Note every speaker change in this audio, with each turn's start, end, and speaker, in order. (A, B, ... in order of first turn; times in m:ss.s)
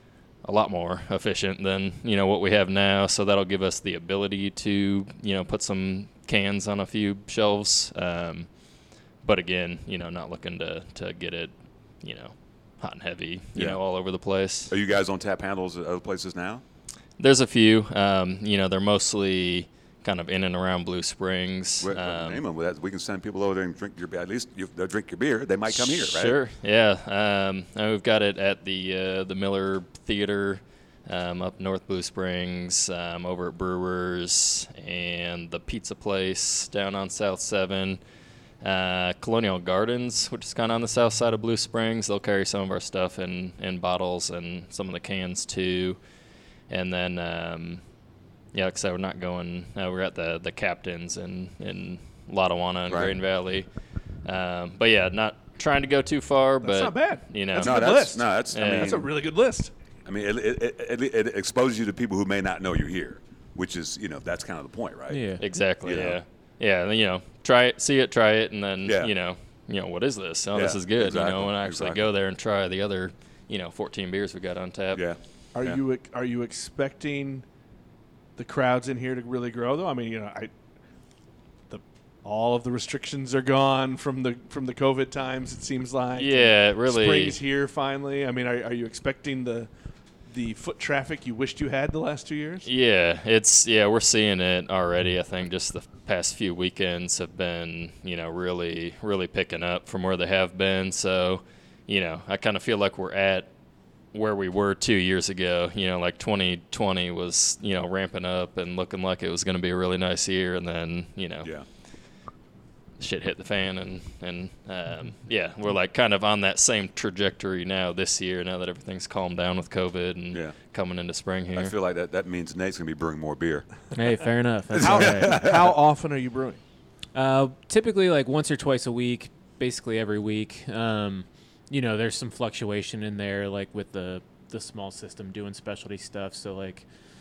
0:00.4-0:08.5 A
0:09.2-0:14.7 A
0:13.5-0:13.8 B
0:14.7-0:16.6 B
0:17.2-0:22.4 A
0:21.8-0:26.4 B
0:25.7-0:38.0 A
0:38.6-0:46.0 A
0:46.7-0:47.8 A
0:48.5-0:53.7 A
0:52.9-0:53.2 B
0:54.2-0:57.9 A
0:56.6-0:59.7 C
0:57.6-0:59.1 B
0:58.5-0:59.0 A
1:00.0-1:05.2 B
1:05.1-1:05.4 D
1:05.4-1:15.0 A
1:05.8-1:06.2 B
1:08.8-1:09.1 B
1:10.5-1:12.0 B
1:14.9-1:15.8 B
1:15.5-1:17.4 C
1:18.4-1:20.5 C
1:21.7-1:29.7 C
1:26.2-1:27.4 A
1:30.3-1:32.7 C
1:32.6-1:43.5 A
1:44.1-1:51.5 A
1:53.0-2:01.7 A
2:01.5-2:03.7 B
2:03.9-2:05.4 D
2:04.7-2:05.7 B
2:04.8-2:06.6 C
2:07.1-2:16.9 D